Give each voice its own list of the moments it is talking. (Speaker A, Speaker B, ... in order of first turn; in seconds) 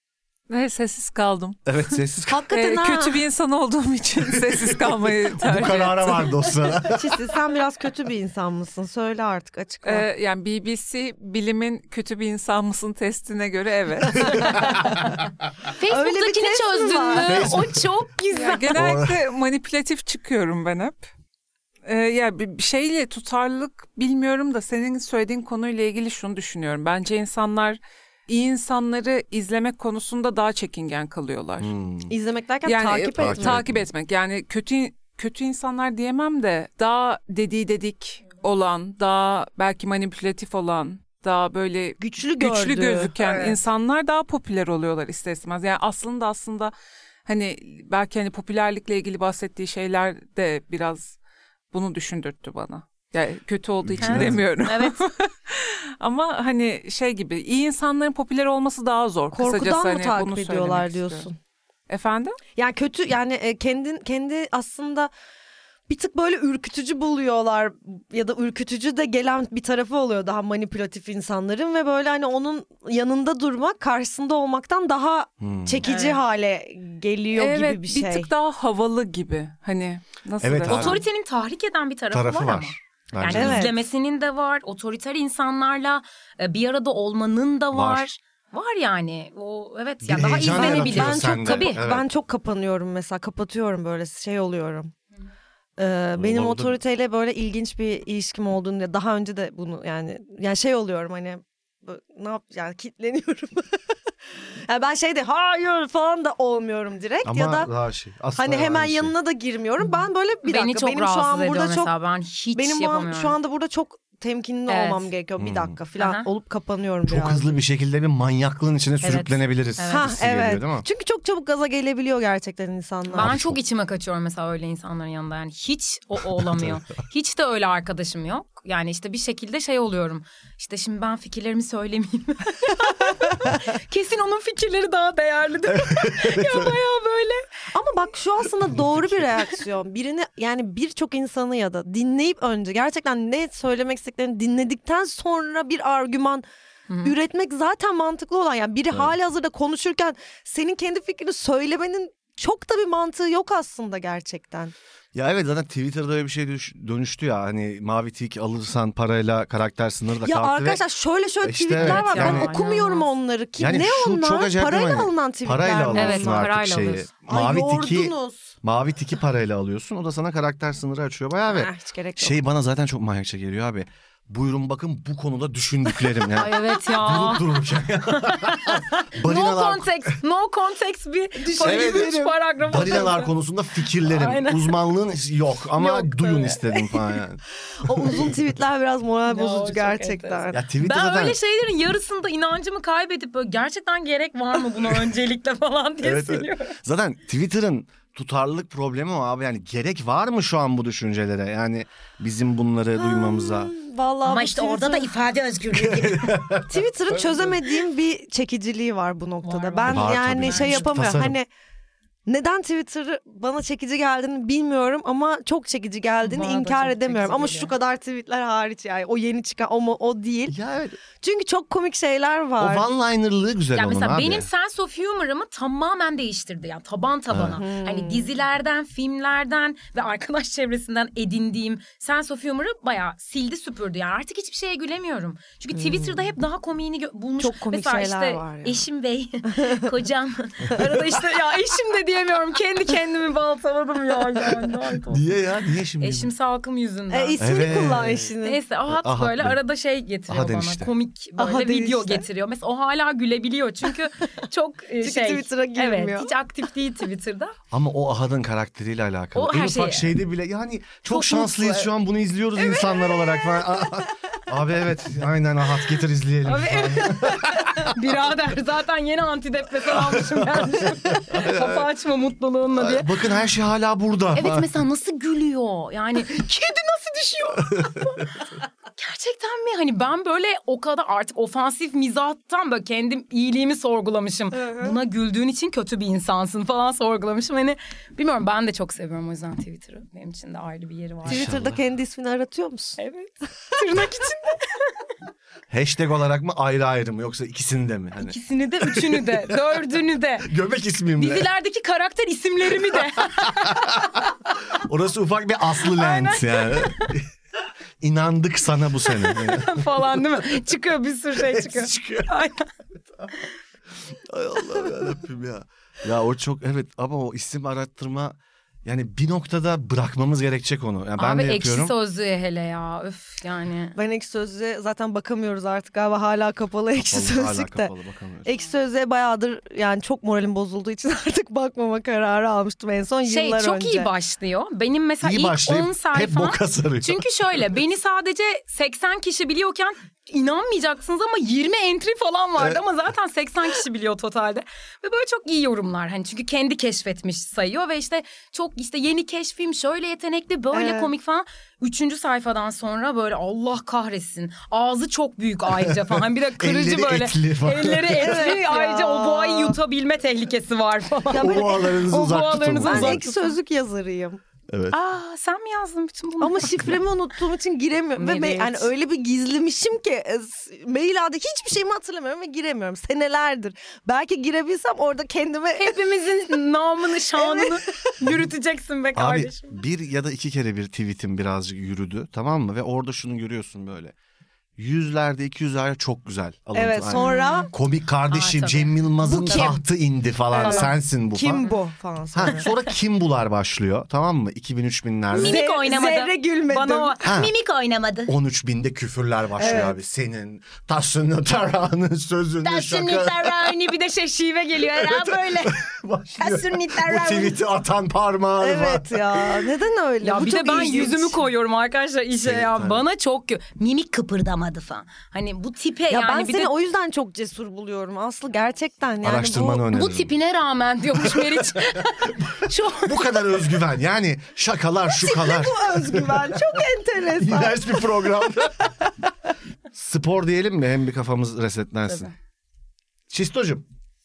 Speaker A: 0.5-1.8, 2.5-6.5, 9.8-14.6, 18.3-21.1, 21.8-31.7, 32.6-46.7, 47.2-51.1, 51.7-61.3, 61.9-62.4, 77.3-81.0
Speaker B: 1.6-2.4, 4.2-7.2, 14.1-15.1, 17.2-17.9, 18.7-19.2, 31.6-32.1, 33.2-33.9, 53.8-54.4, 75.4-75.8, 80.4-81.0, 82.1-83.7, 87.7-88.0, 90.0-92.0, 96.2-96.8, 107.2-109.1, 115.4-115.8, 117.1-120.8, 123.2-123.6, 126.4-126.8, 135.7-136.8, 138.6-139.5, 155.1-160.8, 161.4-162.5, 163.6-180.2, 181.6-188.3, 190.5-191.4, 196.0-203.7, 205.7-207.6, 209.9-211.4, 220.5-221.0, 222.6-224.5, 227.3-227.6, 245.1-246.3, 247.4-248.3, 248.9-249.6, 250.3-250.9, 257.7-267.9, 269.9-271.9, 272.7-274.7, 291.2-291.8, 295.7-299.6, 300.4-301.5, 303.3-307.3, 308.0-310.2, 311.4-312.3, 314.1-321.9, 327.0-328.5, 335.2-337.6, 355.8-358.4, 361.4-363.2, 364.7-364.9, 379.1-384.1, 384.8-391.7, 392.3-395.6, 397.2-397.5, 398.2-403.8, 404.8-409.6, 412.4-413.0, 419.2-420.3, 421.2-426.8, 427.4-428.9, 429.9-432.3, 433.3-433.9
Speaker C: 2.3-3.2, 6.9-10.0, 15.8-17.5, 32.1-33.6, 42.0-43.6, 59.3-61.4, 62.5-65.1, 65.9-78.3, 83.3-83.8, 90.4-94.9, 95.8-103.8, 104.7-107.7, 108.3-111.9, 112.5-117.6, 119.9-123.3, 137.7-146.4, 147.0-154.7, 160.2-166.5, 167.3-168.5, 171.5-172.4, 181.4-182.3, 187.8-190.6, 203.0-205.1, 206.7-211.5, 212.3-220.6, 221.2-222.8, 227.5-228.3, 235.7-236.3, 237.4-238.8, 239.5-239.8, 247.1-248.6, 251.4-252.2, 255.0-256.3, 284.5-285.0, 291.2-293.0, 323.9-327.9, 328.4-334.1, 350.7-351.1, 358.2-359.8, 361.3-361.8, 362.8-364.4, 366.4-375.9, 377.4-378.1, 386.7-387.7, 389.2-389.8, 390.5-392.7, 395.3-397.1, 399.6-399.9, 408.6-411.4, 416.1-419.8, 425.1-428.1
Speaker D: 15.8-18.9, 54.0-55.0, 75.8-76.2, 80.7-91.8, 110.4-113.3, 114.7-115.1, 116.0-116.2, 119.0-120.0, 123.1-137.4, 146.9-147.1, 161.7-163.1, 165.9-167.1, 176.3-177.6, 178.1-183.3, 184.0-184.8, 185.8-187.0, 189.3-196.7, 204.2-206.4, 209.4-210.9, 216.2-217.7, 223.7-245.2, 246.0-247.7, 248.4-257.6, 259.3-260.1, 261.1-261.9, 262.6-263.4, 266.4-273.1, 274.4-291.5, 293.0-294.9, 298.2-300.5, 301.1-304.1, 305.9-307.1, 309.1-312.7, 321.2-323.9, 333.2-363.6, 364.9-367.0, 368.2-368.9, 375.8-379.8, 387.1-387.7, 388.3-389.7, 390.6-390.9, 395.3-398.3, 399.6-399.9, 402.6-405.8, 406.4-407.6, 410.2-416.7, 419.9-423.5, 432.1-432.3